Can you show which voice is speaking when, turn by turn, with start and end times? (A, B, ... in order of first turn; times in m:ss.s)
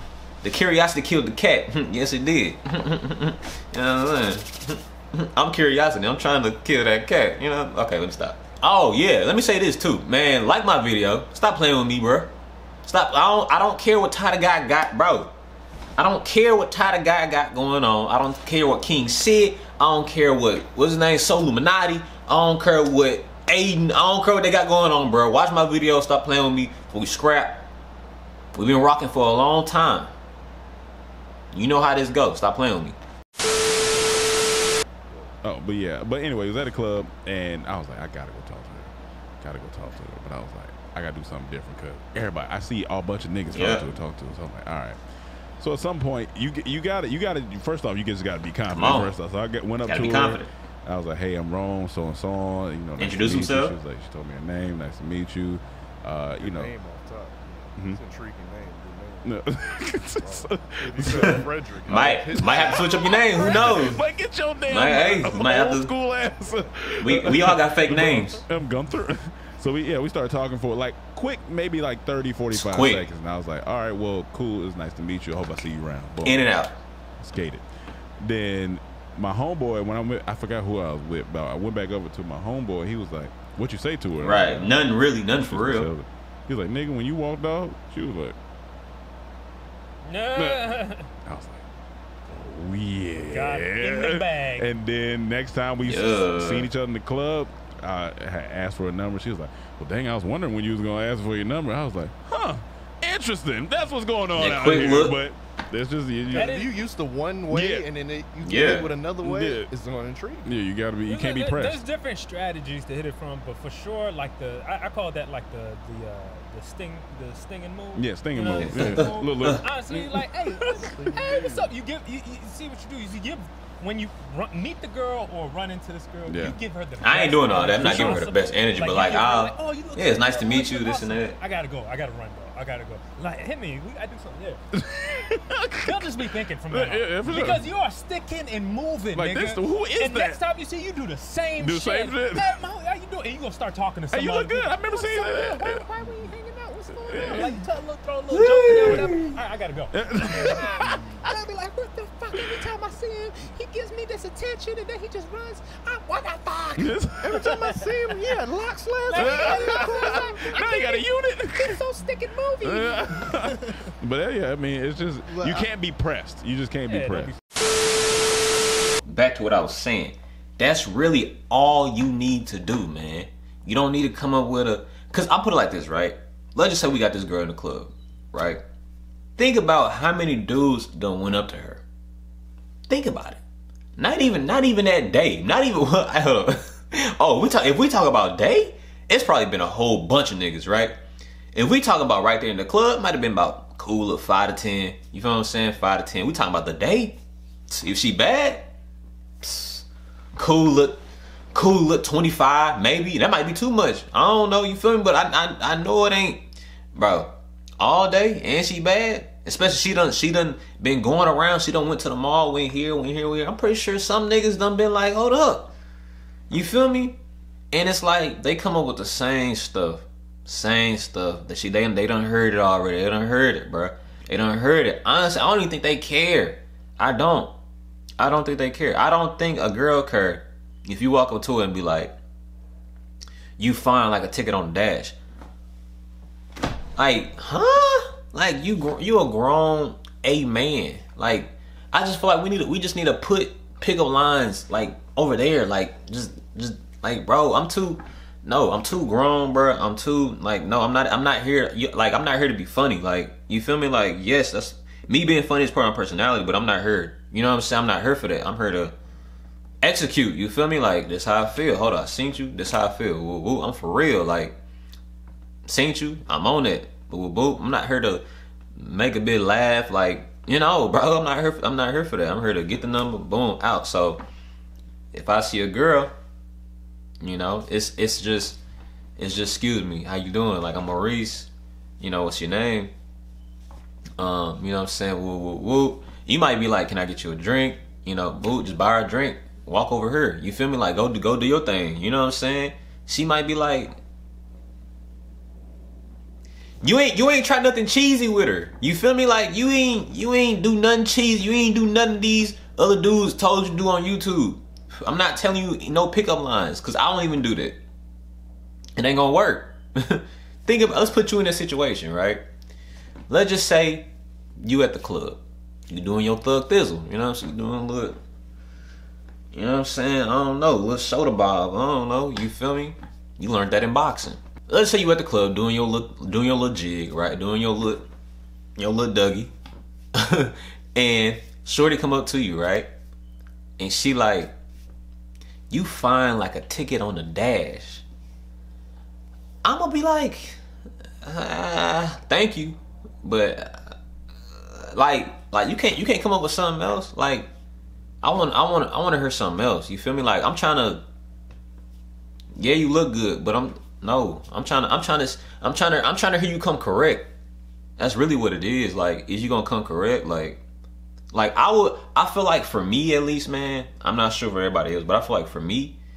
0:00.4-0:12.3 A
0:12.8-0:15.3 A
0:16.0-0:27.6 A
0:28.5-0:30.1 A
0:31.5-0:33.0 A
0:35.4-0:45.0 B
0:43.5-0:43.9 A
0:45.6-0:56.7 B
0:48.7-0:49.2 A
0:49.8-0:50.5 A
0:53.0-0:53.8 A
0:56.4-0:59.3 C
0:59.2-1:16.4 B
1:00.2-1:03.8 C
1:01.9-1:04.0 A
1:04.7-1:05.9 A
1:05.2-1:05.5 C
1:06.4-1:07.4 C
1:07.0-1:08.4 A
1:07.9-1:08.3 C
1:12.5-1:13.1 A
1:16.2-1:16.7 A
1:17.2-1:17.6 B
1:18.2-1:24.8 B
1:24.2-1:25.9 A
1:25.4-1:28.4 B
1:30.0-1:31.1 D
1:30.4-1:30.7 B
1:31.2-1:31.6 B
1:32.3-1:46.6 B
1:33.2-1:34.7 D
1:35.8-1:36.7 A
1:44.3-1:45.2 A
1:46.3-1:50.5 C
1:46.3-1:46.8 D
1:47.5-1:47.9 B
1:48.4-1:48.9 A
1:49.2-1:49.7 B
1:50.4-1:51.8 B
1:51.0-2:14.6 D
1:58.0-2:00.3 B
1:58.6-1:59.6 A
2:00.6-2:01.7 C
2:06.3-2:06.6 B
2:07.0-2:11.4 A
2:14.7-2:17.7 B
2:15.8-2:38.0 D
2:19.2-2:20.4 B
2:21.6-2:22.6 B
2:24.1-2:25.9 B
2:27.0-2:27.6 B
2:28.3-2:29.2 A
2:28.7-2:29.3 B
2:29.9-2:31.2 B
2:32.4-2:32.6 B
2:36.8-2:37.4 B
2:37.2-2:40.5 C
2:39.0-2:43.4 D
2:39.2-2:41.8 B
2:42.6-2:47.3 B
2:45.3-2:45.7 C
2:46.9-2:47.4 D
2:49.0-2:58.6 A
2:59.4-3:01.8 A
3:02.9-3:03.4 A
3:04.0-3:11.0 A
3:11.5-3:17.2 A
3:17.7-3:18.7 A
3:19.4-3:21.0 A
3:21.5-3:26.4 A
3:26.9-3:35.7 A
3:36.5-3:37.2 A
3:37.7-3:47.5 A
3:48.2-3:52.2 A
3:53.6-3:55.2 A
3:57.0-4:18.9 A
4:19.8-4:24.6 A
4:25.6-4:28.2 A
4:28.8-4:34.2 A
4:35.1-4:36.1 A
4:37.2-4:38.6 A
4:39.2-4:42.9 A
4:44.2-4:53.9 A
4:56.8-5:07.8 A
5:09.0-5:12.4 A
5:13.3-5:14.1 A
5:14.6-5:18.2 A
5:19.5-5:28.0 A
5:28.8-5:29.5 A
5:30.1-5:32.9 A
5:33.8-5:34.5 A
5:35.7-5:38.0 A
5:39.6-5:40.6 A
5:41.2-5:44.0 A
5:44.6-5:47.5 A
5:48.2-5:51.0 A
5:52.6-5:57.3 A
5:58.0-6:00.6 A
6:01.3-6:06.0 A